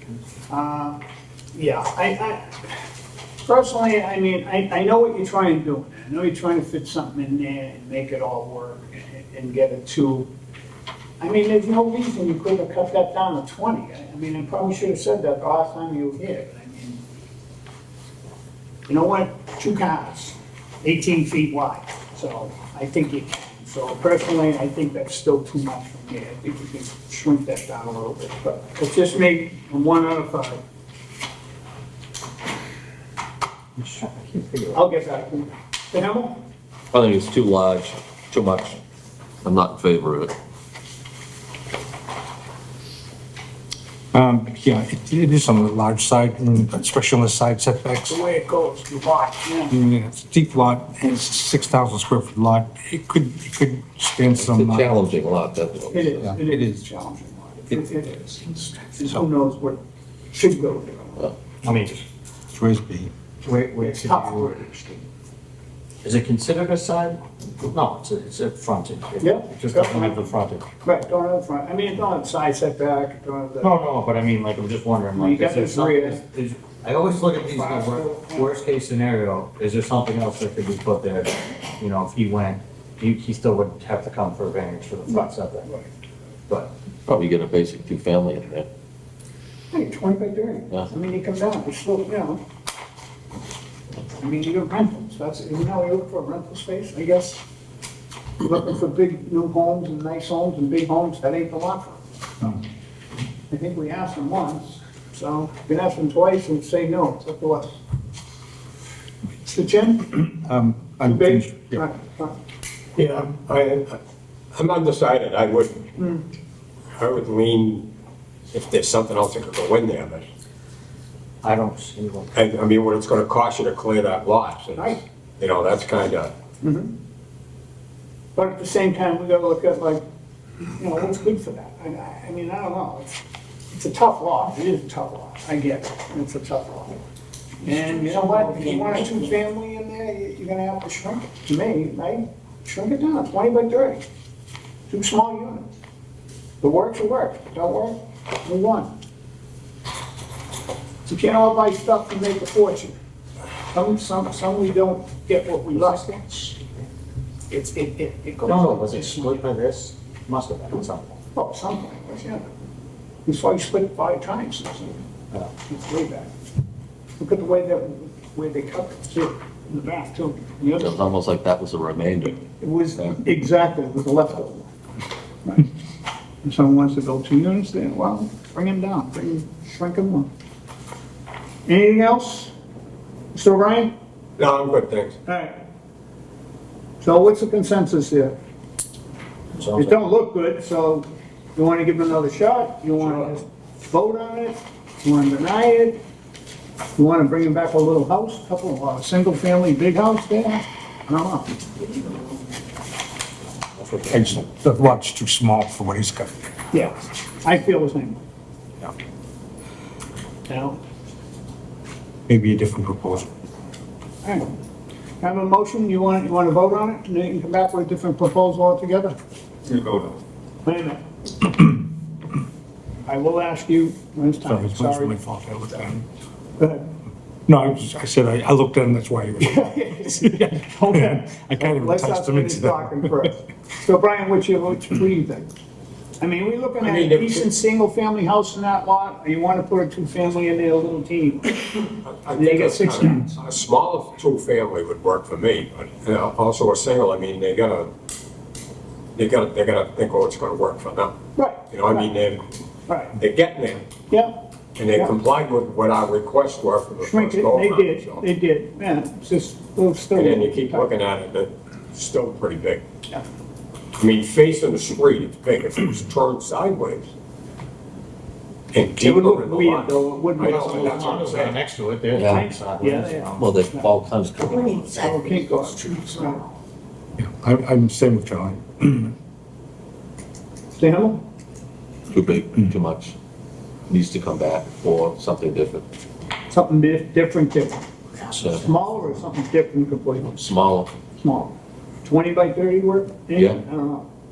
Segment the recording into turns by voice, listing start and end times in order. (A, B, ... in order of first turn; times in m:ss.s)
0:00.5-0:01.0 A
0:01.5-0:02.7 A
0:03.4-0:10.3 A
0:11.2-0:17.0 A
0:18.9-0:30.6 A
0:33.8-0:34.8 B
0:34.7-0:36.4 A
0:36.9-0:38.8 C
0:39.4-0:40.3 C
0:44.1-0:48.2 D
0:48.1-0:49.8 A
0:49.7-0:55.0 D
0:54.3-0:56.3 C
0:55.9-0:59.8 A
0:56.2-0:56.8 D
1:00.3-1:01.2 A
1:01.6-1:02.0 B
1:02.5-1:03.1 D
1:03.4-1:04.5 B
1:03.8-1:05.0 A
1:06.0-1:10.6 B
1:09.2-1:10.3 A
1:10.8-1:13.8 A
1:13.6-1:25.7 B
1:15.1-1:16.2 A
1:17.4-1:18.6 A
1:25.1-1:25.9 A
1:27.1-1:28.7 C
1:29.7-1:32.4 A
1:34.2-1:37.4 A
1:38.4-1:42.0 A
1:43.5-1:47.8 A
1:49.4-1:50.3 A
1:50.3-1:51.8 D
1:51.0-1:52.4 A
1:53.0-1:54.0 E
1:54.5-1:55.9 E
1:56.0-1:56.2 A
1:56.9-1:57.9 E
1:58.5-2:00.2 E
2:01.4-2:02.4 B
2:02.3-2:06.3 E
2:04.8-2:05.0 A
2:06.6-2:06.9 A
2:08.4-2:10.0 A
2:10.6-2:13.2 A
2:13.7-2:17.0 A
2:17.6-2:24.0 A
2:24.9-2:25.7 A
2:26.6-2:28.9 A
2:31.0-2:32.9 A
2:33.7-2:36.5 A
2:37.5-2:39.4 A
2:38.4-2:41.2 B
2:41.3-2:42.4 A
2:43.2-2:45.0 A
2:45.6-2:46.3 A
2:47.2-2:50.9 A
2:50.8-2:52.4 C
2:52.6-2:54.7 A
2:55.4-2:55.7 A
2:56.4-3:00.3 A
3:01.6-3:02.5 A
3:03.3-3:03.9 A
3:04.4-3:05.2 E
3:05.2-3:05.6 A
3:07.0-3:08.4 A
3:09.6-3:09.9 B
3:09.7-3:16.0 A
3:17.0-3:21.6 A
3:23.9-3:26.3 D
3:26.7-3:28.2 A
3:30.5-3:30.8 A
3:32.3-3:33.3 D
3:34.2-3:34.5 A
3:35.2-3:39.2 A
3:39.7-3:40.2 D
3:40.6-3:41.0 A
3:43.0-3:45.2 A
3:44.4-3:46.0 D
3:46.6-3:46.9 A
3:47.5-3:53.3 D
3:49.4-3:55.5 A
3:56.2-4:03.3 A
3:56.8-3:57.5 E
4:02.0-4:07.9 E
4:09.2-4:11.2 E
4:11.4-4:12.1 A
4:11.7-4:12.5 E
4:12.9-4:13.2 A
4:13.2-4:13.9 E
4:14.1-4:14.4 A
4:14.8-4:18.2 E
4:17.0-4:20.9 A
4:20.1-4:22.8 E
4:24.0-4:27.1 E
4:28.7-4:31.6 E
4:29.0-4:31.2 A
4:30.4-4:33.5 B
4:32.1-4:32.5 C
4:32.3-4:33.9 A
4:33.4-4:35.0 C
4:34.7-4:36.4 A
4:37.2-4:39.1 D
4:40.7-4:41.2 A
4:42.1-4:43.1 C
4:43.9-4:45.8 C
4:46.5-4:47.8 A
4:48.3-4:48.7 C
4:48.3-4:50.5 A
4:50.4-4:50.9 C
4:51.2-4:54.1 A
4:53.3-4:53.6 C